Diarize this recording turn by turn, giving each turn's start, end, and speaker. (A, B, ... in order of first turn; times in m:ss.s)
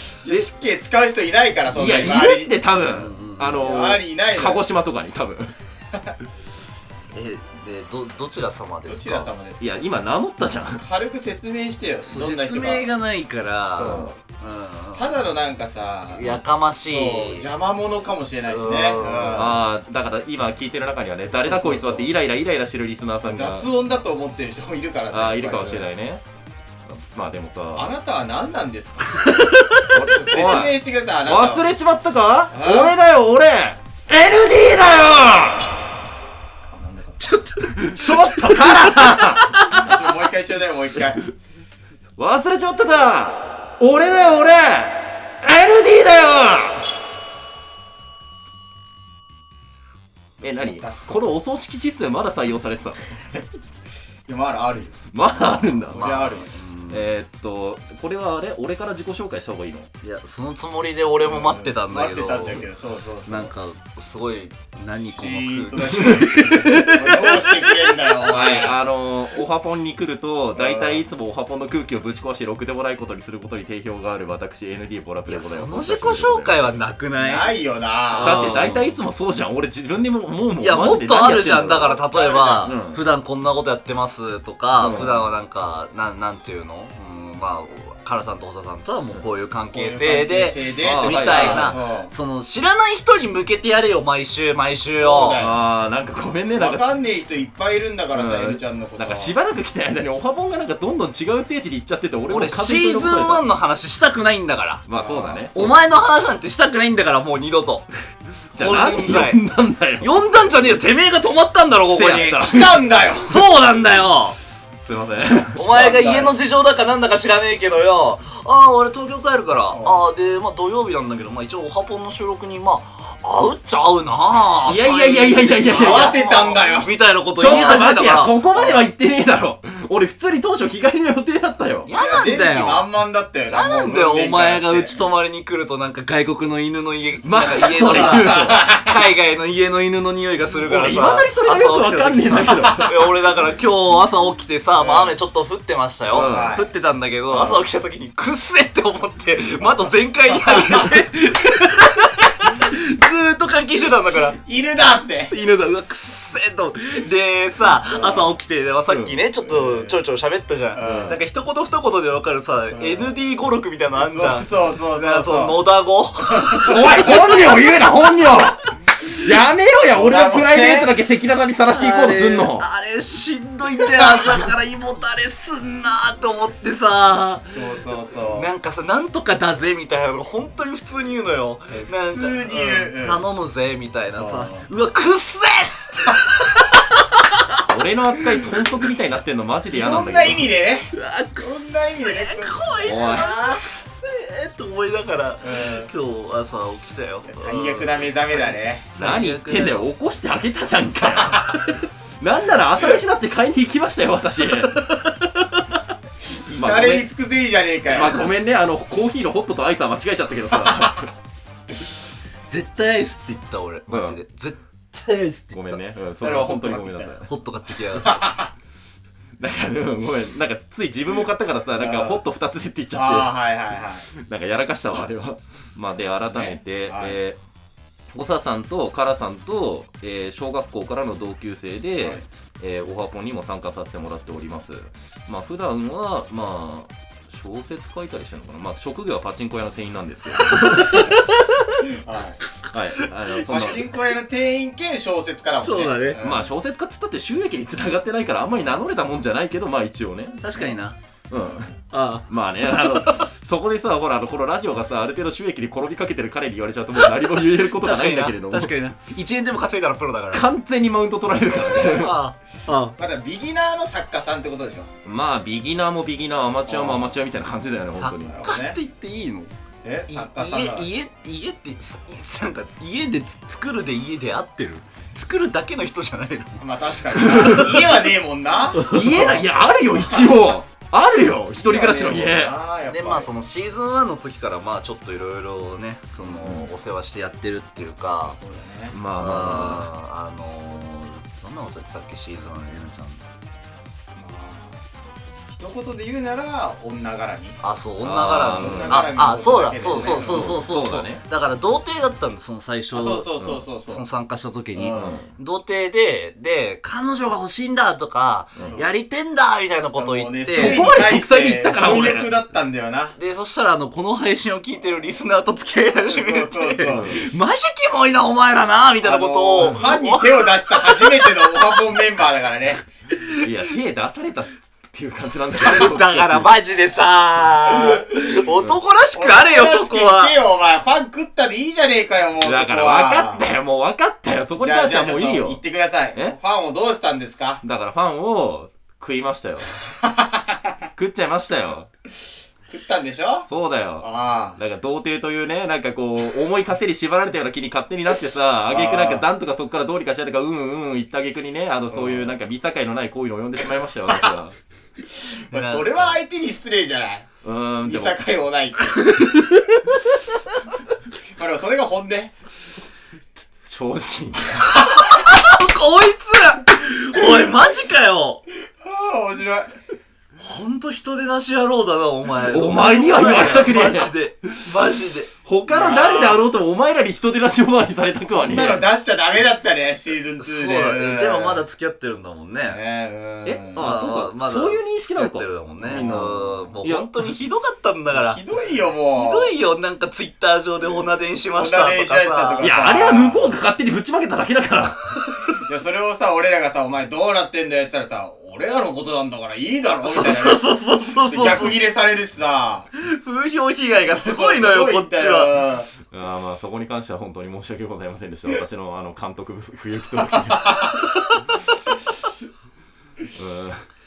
0:00.2-0:02.5 A
0:01.7-0:05.5 B
0:02.8-0:03.6 C
0:03.6-0:04.6 A
0:07.1-0:09.3 C
0:08.8-0:10.0 A
0:09.6-0:10.8 B
0:10.7-0:12.9 A
0:12.0-0:15.3 C
0:13.7-0:14.1 A
0:13.8-0:14.1 B
0:15.0-0:19.6 A
0:16.1-0:17.5 C
0:18.5-0:19.6 C
0:19.3-0:23.7 B
0:21.3-0:22.1 A
0:23.2-0:25.9 A
0:25.1-0:26.2 B
0:26.8-0:27.9 B
0:27.7-0:29.2 A
0:29.2-0:30.0 C
0:29.9-0:35.6 B
0:30.1-0:31.7 A
0:32.5-0:33.0 A
0:36.7-0:37.4 A
0:37.2-0:39.9 C
0:37.8-0:40.0 B
0:39.7-0:41.2 A
0:42.2-0:46.8 B
0:50.4-0:51.0 A
0:50.4-0:53.0 B
0:54.3-0:56.5 A
0:55.1-0:56.1 B
0:55.4-0:57.1 C
0:56.9-0:59.9 B
1:00.0-1:02.7 C
1:01.2-1:03.5 A
1:03.2-1:07.6 C
1:04.9-1:08.8 A
1:08.3-1:16.6 B
1:10.5-1:11.0 A
1:15.3-1:17.6 C
1:17.2-1:18.7 A
1:18.1-1:19.0 C
1:18.2-1:22.0 B
1:20.6-1:35.4 C
1:21.8-1:22.7 A
1:22.6-1:23.0 B
1:24.8-1:25.2 B
1:29.7-1:32.1 A
1:30.8-1:31.8 B
1:34.9-1:35.6 A
1:35.4-1:36.9 B
1:36.5-1:39.4 A
1:38.1-1:43.4 B
1:42.3-1:44.8 C
1:44.8-1:45.7 B
1:45.0-1:45.5 A
1:45.5-1:47.9 C
1:48.5-1:50.2 B
1:48.6-1:52.5 C
1:51.9-1:52.8 B
1:52.4-1:53.5 A
1:53.2-1:54.4 C
1:54.8-1:56.3 B
1:55.6-2:08.4 C
1:59.7-2:00.1 A
2:04.6-2:06.1 B
2:05.7-2:06.9 A
2:07.4-2:11.9 B
2:08.5-2:08.8 A
2:11.8-2:12.9 C
2:11.9-2:15.0 A
2:13.5-2:34.4 C
2:17.2-2:18.7 B
2:17.8-2:19.0 A
2:20.6-2:22.9 B
2:24.8-2:25.2 A
2:26.1-2:26.6 B
2:26.1-2:26.7 A
2:27.3-2:27.6 A
2:30.3-2:30.9 A
2:34.4-2:35.3 A
2:35.3-2:48.5 C
2:37.9-2:38.4 A
2:38.9-2:39.2 B
2:39.4-2:40.0 A
2:40.8-2:41.2 A
2:40.8-2:41.2 B
2:42.7-2:43.2 A
2:44.0-2:45.6 A
2:46.4-2:46.8 A
2:46.6-2:52.6 B
2:49.9-2:51.0 A
2:51.7-3:07.6 C
2:53.7-2:54.5 A
2:57.5-2:58.5 A
3:01.7-3:03.2 A
3:04.1-3:04.7 A
3:07.7-3:10.5 B
3:09.7-3:13.6 A
3:10.9-3:19.9 C
3:12.8-3:13.3 B
3:15.4-3:15.9 A
3:17.3-3:18.9 A
3:18.9-3:21.5 B
3:21.0-3:21.5 A
3:22.2-3:24.8 B
3:24.6-3:25.6 C
3:26.5-3:28.3 A
3:26.5-3:27.1 B
3:27.9-3:31.1 B
3:32.5-3:35.8 C
3:33.9-3:34.2 B
3:35.5-3:37.3 B
3:36.2-3:37.2 A
3:37.3-3:38.2 C
3:38.0-3:38.5 A
3:39.4-3:43.4 B
3:41.8-3:42.2 A
3:42.9-3:44.1 A
3:44.1-3:47.4 B
3:46.3-3:47.2 A
3:48.1-4:01.2 B
4:00.4-4:01.9 C
4:00.8-4:01.1 A
4:01.9-4:02.4 A
4:02.7-4:03.9 B
4:03.0-4:04.0 C
4:03.5-4:06.5 A
4:05.6-4:06.2 C
4:06.2-4:10.4 B
4:10.4-4:11.0 C
4:11.3-4:11.7 B
4:11.4-4:11.7 A
4:11.9-4:13.3 C
4:12.3-4:18.7 B
4:17.0-4:20.5 C
4:20.3-4:22.2 B
4:21.6-4:22.1 A
4:21.7-4:23.0 C
4:22.9-4:24.9 A
4:25.0-4:28.4 B
4:26.7-4:27.2 A
4:27.9-4:29.5 C
4:28.2-4:28.8 A
4:29.8-4:30.9 A
4:30.1-4:36.6 C
4:36.6-4:40.4 A
4:37.2-4:37.9 B
4:38.8-4:39.0 C
4:38.8-4:42.5 B
4:41.5-4:43.3 A
4:42.9-4:48.4 C
4:46.4-4:46.7 B
4:48.2-4:49.0 A
4:48.9-4:49.9 B
4:49.2-4:53.2 C
4:54.1-4:54.8 A
4:55.5-4:57.6 A
4:57.6-5:10.8 C
4:58.0-4:59.1 B
4:58.6-5:00.5 A
4:59.8-5:01.2 B
5:02.9-5:04.0 A
5:03.4-5:03.6 B
5:04.7-5:05.2 A
5:04.9-5:05.3 B
5:08.6-5:08.9 A
5:10.0-5:13.2 A
5:10.5-5:12.3 B
5:13.2-5:21.6 C
5:16.1-5:17.2 A
5:16.8-5:17.2 B
5:19.0-5:22.8 A
5:19.6-5:19.8 B
5:23.2-5:23.4 C
5:23.4-5:26.6 B
5:25.6-5:30.4 C
5:29.1-5:33.4 A
5:32.4-5:35.6 B
5:34.5-5:37.6 A
5:37.6-5:39.7 B
5:40.0-5:40.8 A
5:41.0-5:41.9 B
5:42.7-5:43.5 A
5:43.5-5:54.6 B
5:44.0-5:44.6 A
5:48.7-5:49.3 A
5:51.9-5:52.3 A
5:54.1-5:54.3 A
5:55.3-5:57.3 A
5:55.5-5:56.2 C
5:57.4-5:58.2 B
5:57.8-5:59.0 A
5:59.0-6:00.2 C
6:01.3-6:02.3 A
6:03.6-6:04.7 B
6:04.7-6:08.4 C
6:08.8-6:09.7 A
6:10.4-6:15.3 C
6:12.5-6:14.1 B
6:15.4-6:18.8 B
6:15.6-6:16.4 A
6:18.3-6:21.6 A
6:20.4-6:22.8 C
6:22.6-6:23.9 A
6:23.4-6:27.1 B
6:23.8-6:28.4 C
6:25.8-6:26.7 A
6:28.1-6:29.5 A
6:29.1-6:32.8 C
6:31.5-6:33.6 A
6:32.6-6:35.2 B
6:35.6-6:42.9 A
6:40.0-6:41.8 C
6:43.0-6:45.5 C
6:44.1-6:45.9 A
6:46.1-6:51.0 B
6:53.3-6:53.8 B